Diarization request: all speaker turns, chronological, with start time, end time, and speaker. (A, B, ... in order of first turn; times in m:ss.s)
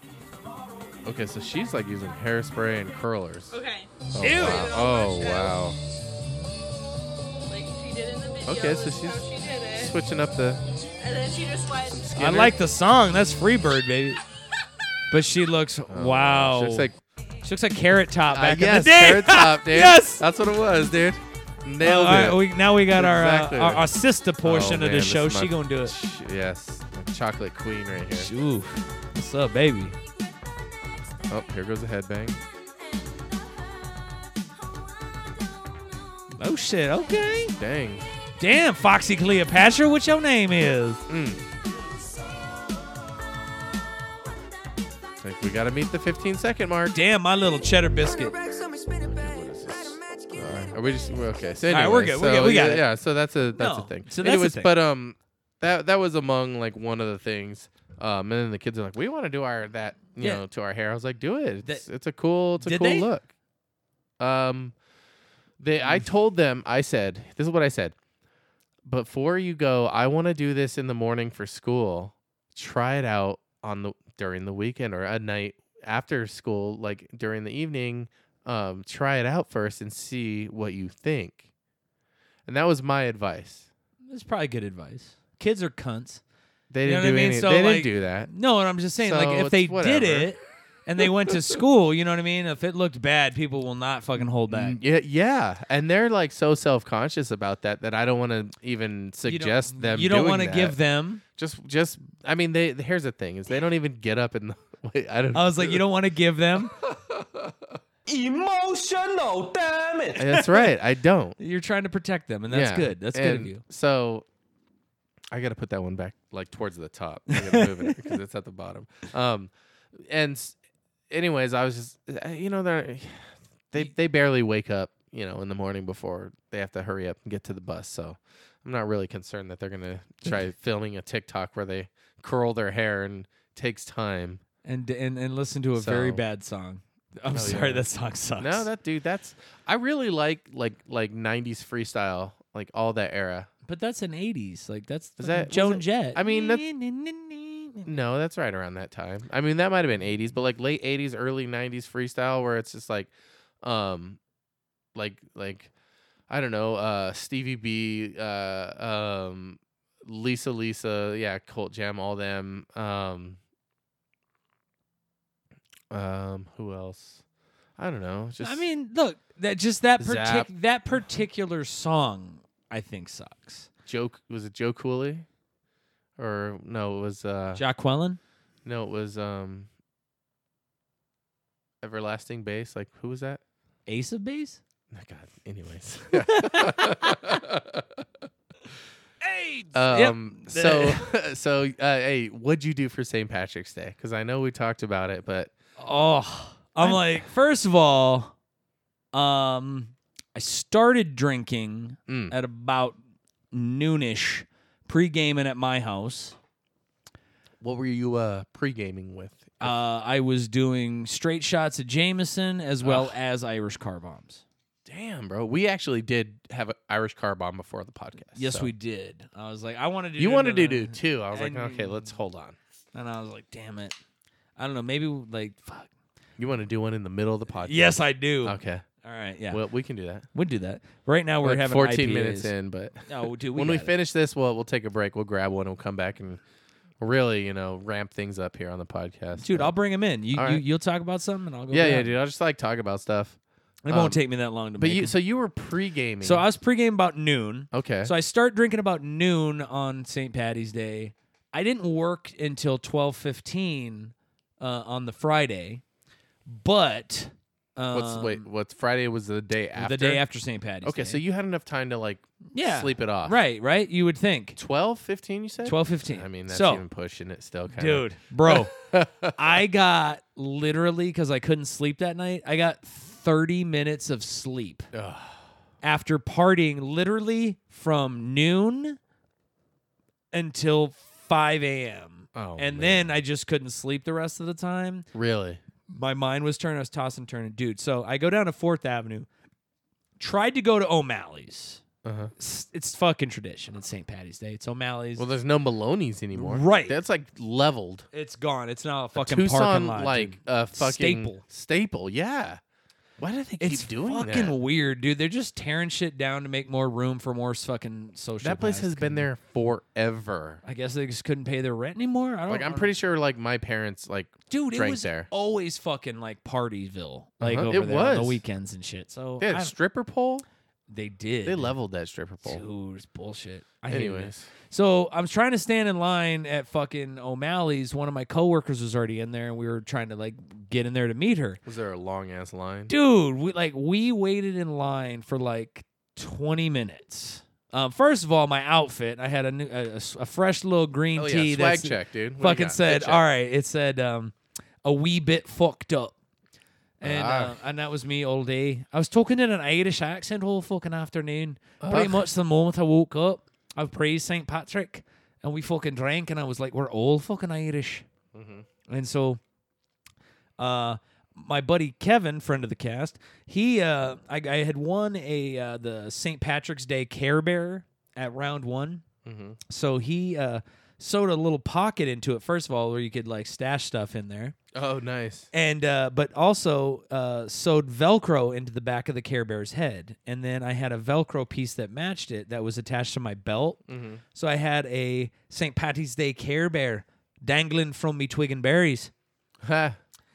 0:01.0-0:03.6 A
0:03.5-0:05.6 B
0:04.1-0:05.8 A
0:04.2-0:04.8 C
0:07.5-0:09.9 B
0:08.4-0:10.6 A
0:11.0-0:12.1 B
0:11.9-0:12.6 A
0:12.2-0:14.2 C
0:15.1-0:16.9 C
0:15.9-0:17.0 A
0:17.4-0:20.2 C
0:18.3-0:23.8 A
0:21.8-0:25.9 C
0:24.4-0:28.3 A
0:28.1-0:29.9 C
0:31.3-0:32.4 A
0:36.4-0:37.6 C
0:37.6-0:38.0 A
0:38.4-0:41.0 C
0:41.1-0:41.4 A
0:45.2-0:47.0 A
0:46.9-0:48.4 C
0:49.0-1:03.3 A
0:51.7-0:52.9 C
0:53.6-0:54.7 C
1:00.2-1:00.4 C
1:02.6-1:03.1 C
1:04.2-1:04.8 A
1:05.6-1:08.0 A
1:08.8-1:21.4 A
1:22.4-1:23.7 A
1:24.1-1:26.2 C
1:26.7-1:28.3 A
1:26.8-1:34.8 C
1:29.0-1:30.3 A
1:34.2-1:40.8 A
1:39.2-1:41.2 C
1:41.3-1:45.8 A
1:45.3-1:46.7 C
1:46.8-1:47.5 A
1:48.1-1:50.4 D
1:50.2-1:51.4 A
1:51.4-1:53.6 C
1:52.5-1:54.2 A
1:55.3-2:00.6 A
1:57.3-1:58.1 C
2:01.1-2:14.4 A
2:14.6-2:18.6 C
2:15.8-2:16.2 A
2:17.3-2:17.8 A
2:18.4-2:23.5 A
2:23.7-2:27.9 C
2:25.2-2:26.6 A
2:27.8-2:33.1 A
2:33.6-2:34.2 A
2:34.9-2:35.7 A
2:36.3-2:43.4 A
2:45.9-2:47.2 A
2:47.8-2:48.6 A
2:48.4-2:53.7 C
2:50.0-2:50.5 A
2:53.8-2:55.2 A
2:56.2-2:57.6 A
2:57.6-2:58.2 C
2:58.6-2:59.7 A
3:01.8-3:03.4 A
3:03.9-3:04.6 C
3:04.9-3:08.0 A
3:06.1-3:07.3 C
3:09.2-3:11.0 C
3:09.7-3:15.5 A
3:15.8-3:18.3 C
3:16.8-3:17.2 A
3:19.1-3:23.0 C
3:22.1-3:22.3 A
3:23.5-3:26.4 C
3:27.6-3:29.8 A
3:29.6-3:34.4 C
3:32.8-3:33.1 A
3:34.8-3:38.7 A
3:38.3-3:42.0 C
3:40.2-3:42.6 A
3:42.9-3:43.9 C
3:44.6-3:45.9 C
3:46.4-3:48.8 A
3:47.6-3:49.6 C
3:49.5-3:50.3 A
3:50.3-3:52.5 C
3:51.4-3:56.4 A
3:53.0-3:53.9 C
3:57.0-3:59.7 A
3:59.4-4:02.1 C
4:00.3-4:00.6 A
4:01.7-4:04.2 A
4:03.8-4:05.1 C
4:04.7-4:06.4 A
4:06.2-4:15.8 C
4:07.7-4:08.1 A
4:16.5-4:18.5 C
4:17.9-4:20.2 A
4:19.8-4:21.2 C
4:20.8-4:23.4 A
4:22.5-4:24.6 C
4:24.6-4:29.4 A
4:25.6-4:26.8 C
4:27.7-4:28.7 C
4:29.4-4:34.9 C
4:34.9-4:35.4 A
4:35.8-4:39.0 C
4:40.3-4:45.0 C
4:42.3-4:43.1 A
4:45.1-4:45.6 A
4:45.9-4:49.3 C
4:50.2-4:51.8 C
4:52.0-4:52.3 A
4:52.4-4:55.3 C
4:55.2-4:58.1 A
4:56.3-4:57.0 C
4:58.1-5:01.4 C
4:59.1-5:02.6 A
5:03.2-5:04.5 A
5:03.6-5:09.3 C
5:08.4-5:10.6 A
5:10.6-5:12.9 C
5:12.5-5:15.3 A
5:14.5-5:19.7 C
5:17.4-5:18.4 A
5:19.4-5:20.4 A
5:20.9-5:21.7 C
5:21.4-5:22.6 A
5:22.4-5:31.6 C
5:23.9-5:24.5 A
5:31.6-5:32.9 A
5:32.9-5:46.1 C
5:41.1-5:43.2 A
5:47.0-5:58.0 C
5:47.0-5:47.6 A
5:51.8-5:52.2 A
5:58.3-5:58.6 A
5:58.9-5:59.4 C
6:00.6-6:09.0 C
6:09.2-6:09.6 A
6:09.7-6:14.5 C
6:14.7-6:15.5 A
6:15.5-6:23.8 C
6:23.9-6:24.2 A
6:24.3-6:29.1 C
6:29.6-6:30.0 A